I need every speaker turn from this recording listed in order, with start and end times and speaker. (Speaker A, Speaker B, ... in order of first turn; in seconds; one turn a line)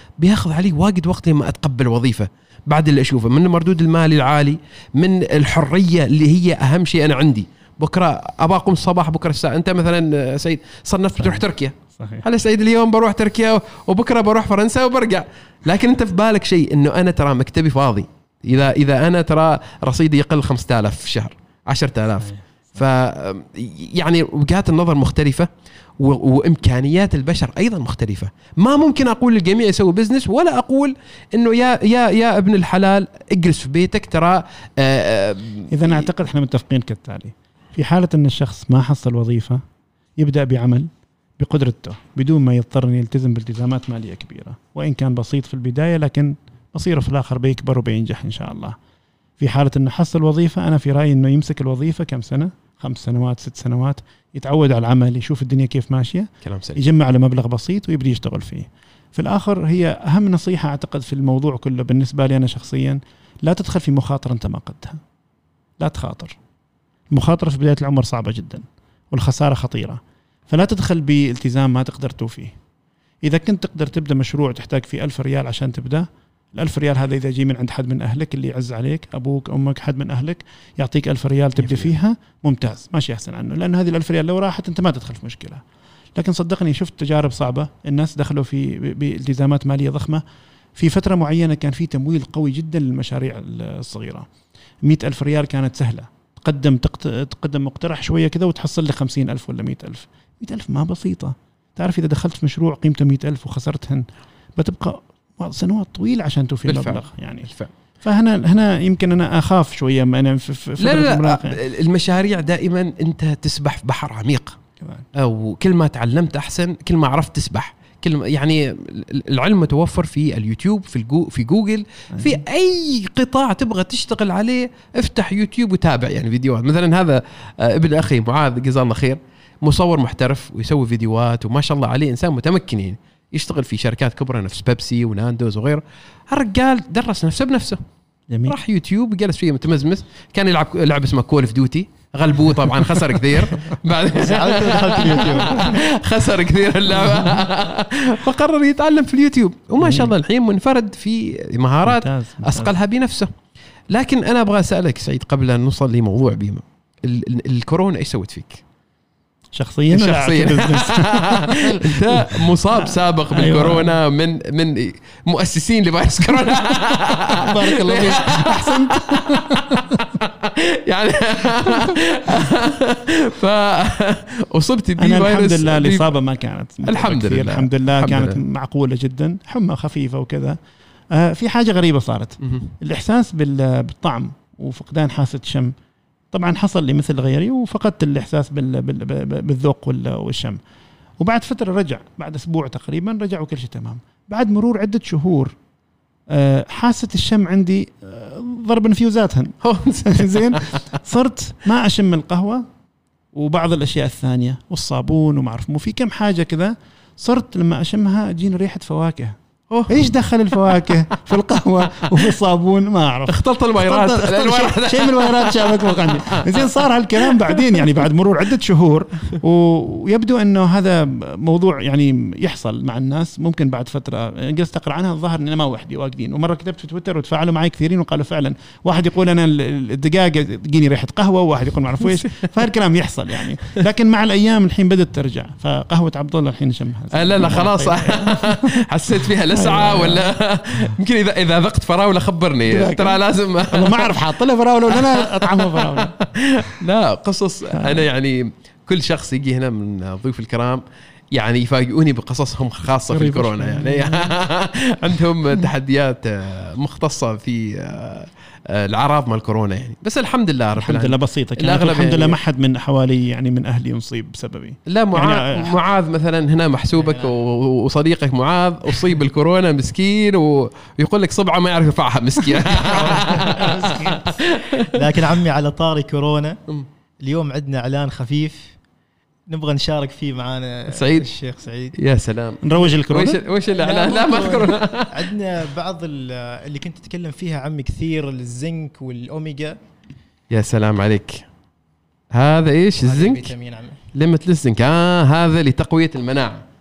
Speaker A: 0.2-36.0
Speaker B: 11.9-12.2
Speaker B: 35.7-39.6
Speaker B: 40.2-48.8
Speaker B: 49.4-65.0
Speaker A: 56.4-56.8
Speaker B: 65.8-66.4
Speaker B: 67.1-72.5
Speaker B: 73.2-85.6
Speaker A: 81.6-81.9
Speaker B: 86.2-90.2
Speaker B: 90.8-94.3
Speaker B: 94.8-107.5
Speaker A: 106.7-107.7
Speaker B: 108.0-111.6
Speaker A: 110.8-114.6
Speaker B: 114.8-115.0
Speaker A: 115.1-137.8
Speaker B: 138.3-138.6
Speaker A: 138.4-153.3
Speaker C: 144.1-145.8
Speaker B: 147.0-147.3
Speaker B: 149.8-150.1
Speaker B: 151.8-152.7
Speaker A: 153.9-158.6
Speaker B: 159.5-163.9
Speaker A: 159.9-176.2
Speaker B: 167.4-170.0
Speaker B: 171.6-171.9
Speaker B: 175.0-180.6
Speaker A: 176.8-178.4
Speaker B: 181.1-185.7
Speaker B: 186.3-190.6
Speaker B: 191.2-195.5
Speaker B: 196.3-202.6
Speaker A: 199.6-200.8
Speaker B: 203.3-209.4
Speaker A: 209.7-210.1
Speaker B: 209.9-238.8
Speaker A: 211.9-212.3
Speaker A: 213.3-217.9
Speaker A: 237.1-244.2
Speaker B: 239.5-240.2
Speaker B: 242.7-243.2
Speaker B: 243.7-246.1
Speaker A: 244.9-262.4
Speaker B: 247.7-248.0
Speaker B: 253.1-254.3
Speaker B: 260.8-265.8
Speaker A: 264.9-275.1
Speaker B: 272.6-274.4
Speaker C: 274.9-276.6
Speaker C: 277.2-278.8
Speaker C: 279.5-281.9
Speaker A: 280.9-281.3
Speaker A: 281.9-285.2
Speaker B: 282.6-283.4
Speaker C: 283.7-289.8
Speaker A: 290.5-291.4
Speaker A: 292.3-293.5
Speaker C: 293.0-294.0
Speaker A: 294.1-296.6